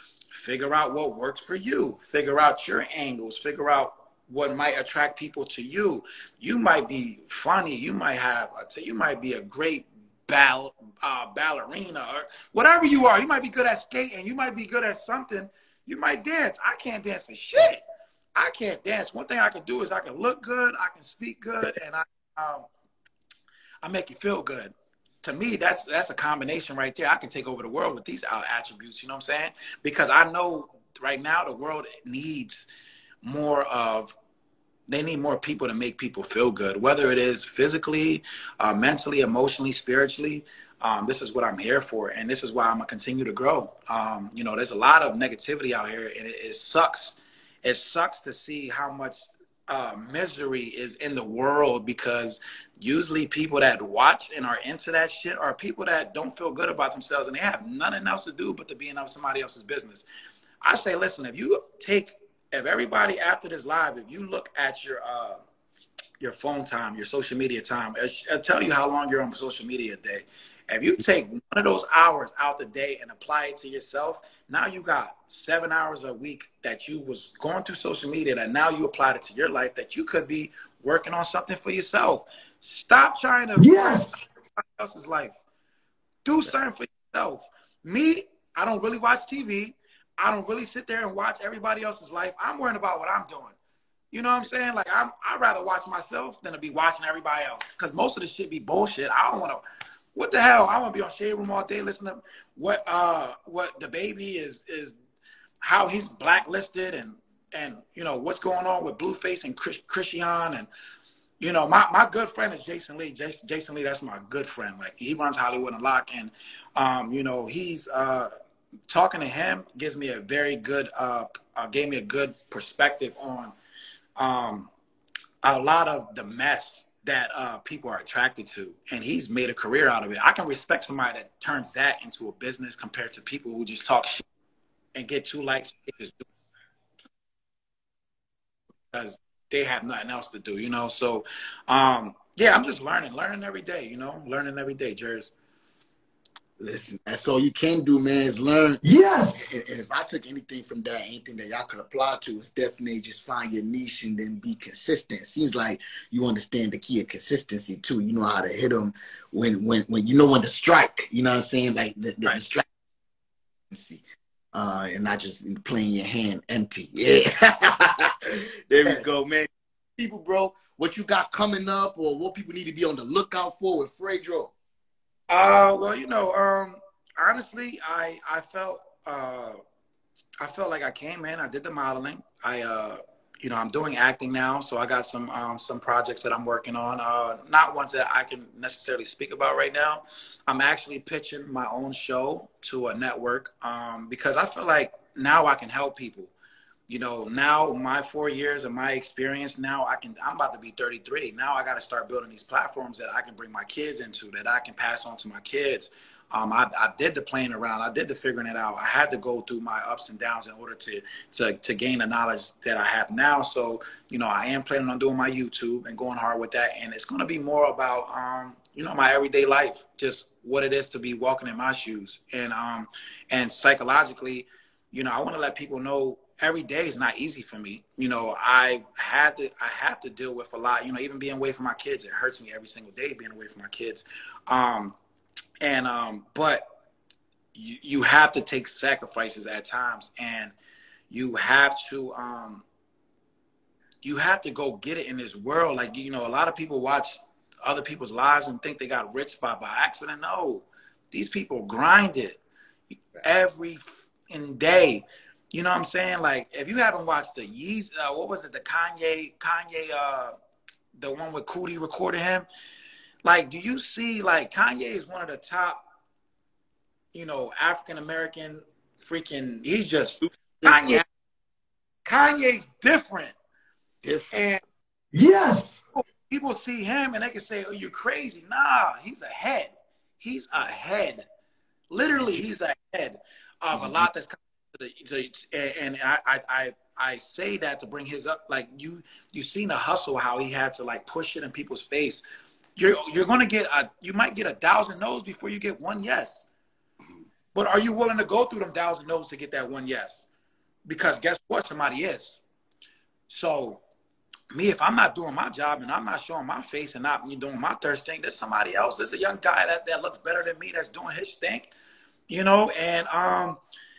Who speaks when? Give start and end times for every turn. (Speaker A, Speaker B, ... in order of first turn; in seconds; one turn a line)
Speaker A: 0.3-17.8
Speaker A: 18.4-22.7
Speaker A: 23.8-32.7
Speaker A: 33.2-34.1
Speaker A: 34.9-60.0
Speaker A: 60.6-65.4
Speaker A: 66.2-85.4
Speaker B: 83.6-84.2
Speaker A: 86.2-93.5
Speaker A: 94.1-99.6
Speaker A: 100.2-105.0
Speaker A: 105.6-110.7
Speaker A: 111.4-118.3
Speaker A: 118.9-123.5
Speaker A: 124.2-124.7
Speaker A: 125.4-134.2
Speaker A: 134.9-136.2
Speaker A: 138.9-145.3
Speaker C: 146.6-148.8
Speaker B: 148.8-149.5
Speaker C: 149.4-162.7
Speaker C: 163.7-164.0
Speaker C: 164.5-174.5
Speaker A: 175.3-179.6
Speaker A: 180.4-196.3
Speaker A: 196.9-235.0
Speaker A: 235.6-236.6
Speaker A: 237.6-240.5
Speaker A: 241.1-242.7
Speaker A: 244.0-252.4
Speaker A: 253.2-260.3
Speaker A: 261.0-262.5
Speaker A: 263.2-265.8
Speaker A: 267.1-271.1
Speaker C: 270.2-271.0
Speaker A: 272.1-273.4
Speaker C: 274.0-274.4
Speaker A: 274.3-274.6
Speaker B: 275.1-275.8
Speaker A: 275.9-281.2
Speaker A: 281.9-292.2
Speaker C: 283.8-284.1
Speaker A: 292.8-296.5
Speaker A: 297.5-300.3
Speaker A: 300.9-302.4
Speaker A: 303.3-303.8
Speaker A: 304.5-311.7
Speaker A: 312.3-313.6